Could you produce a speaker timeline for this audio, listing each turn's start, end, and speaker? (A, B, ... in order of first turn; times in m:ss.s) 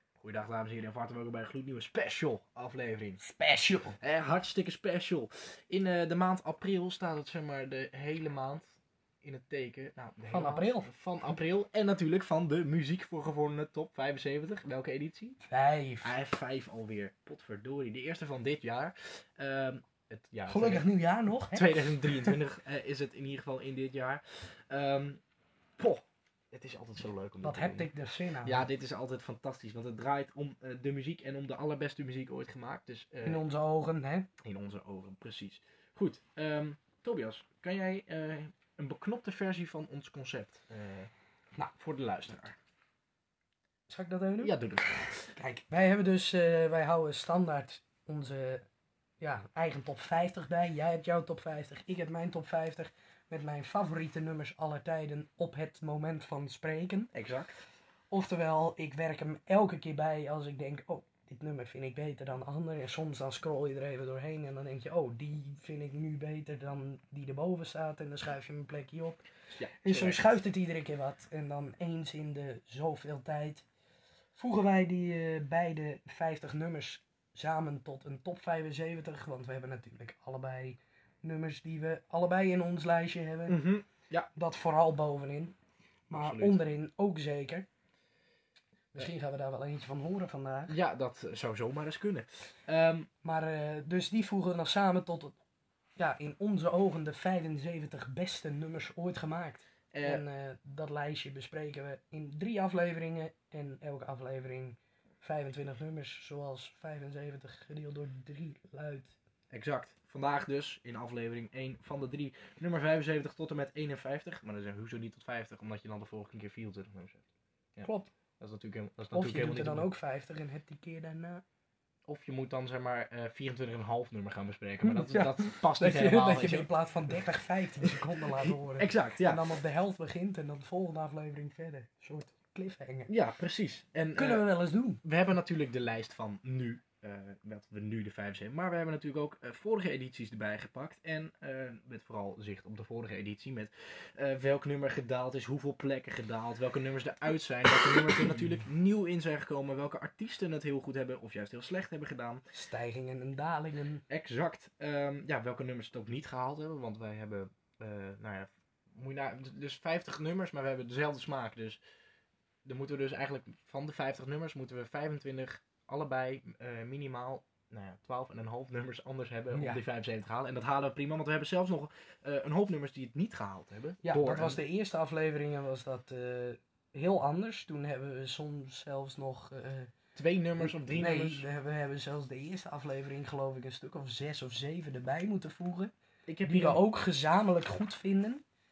0:00.2-0:03.2 A
0:03.2-0:04.0 B
0:04.0-0:08.7 A
0:09.2-0:15.4 A
0:10.3-0:10.9 B
0:15.4-0:16.1 B
0:16.0-0:20.8 A
0:20.5-0:22.4 B
0:21.5-0:25.2 A
0:25.8-0:27.9 A
0:27.4-0:28.6 B
0:28.4-0:33.4 A
0:33.2-0:34.3 B
0:34.4-0:41.1 A
0:41.8-0:42.6 A
0:43.9-0:44.5 B
0:44.4-0:45.3 A
0:45.3-0:48.6 B
0:49.2-0:57.1 B
0:57.1-0:57.6 A
0:58.1-1:09.2 B
1:09.5-1:10.2 A
1:09.8-1:13.6 B
1:14.4-1:23.6 B
1:23.5-1:24.3 A
1:24.3-1:25.5 B
1:26.1-1:26.6 A
1:26.1-1:27.6 B
1:28.9-1:30.7 B
1:30.7-1:33.1 A
1:33.2-1:35.4 B
1:36.0-1:49.1 B
1:39.9-1:40.2 A
1:49.5-1:57.2 A
1:57.8-1:59.9 A
1:57.8-1:58.1 B
1:59.1-2:01.4 B
2:02.0-2:06.7 A
2:04.8-2:13.1 B
2:07.8-2:09.4 A
2:13.1-2:32.4 A
2:14.2-2:15.0 B
2:32.5-2:34.0 B
2:34.1-2:41.8 A
2:42.6-2:54.6 A
2:49.5-2:49.8 B
2:54.0-2:59.9 B
3:00.1-3:01.4 A
3:00.6-3:05.9 B
3:06.3-3:06.8 A
3:06.4-3:08.4 B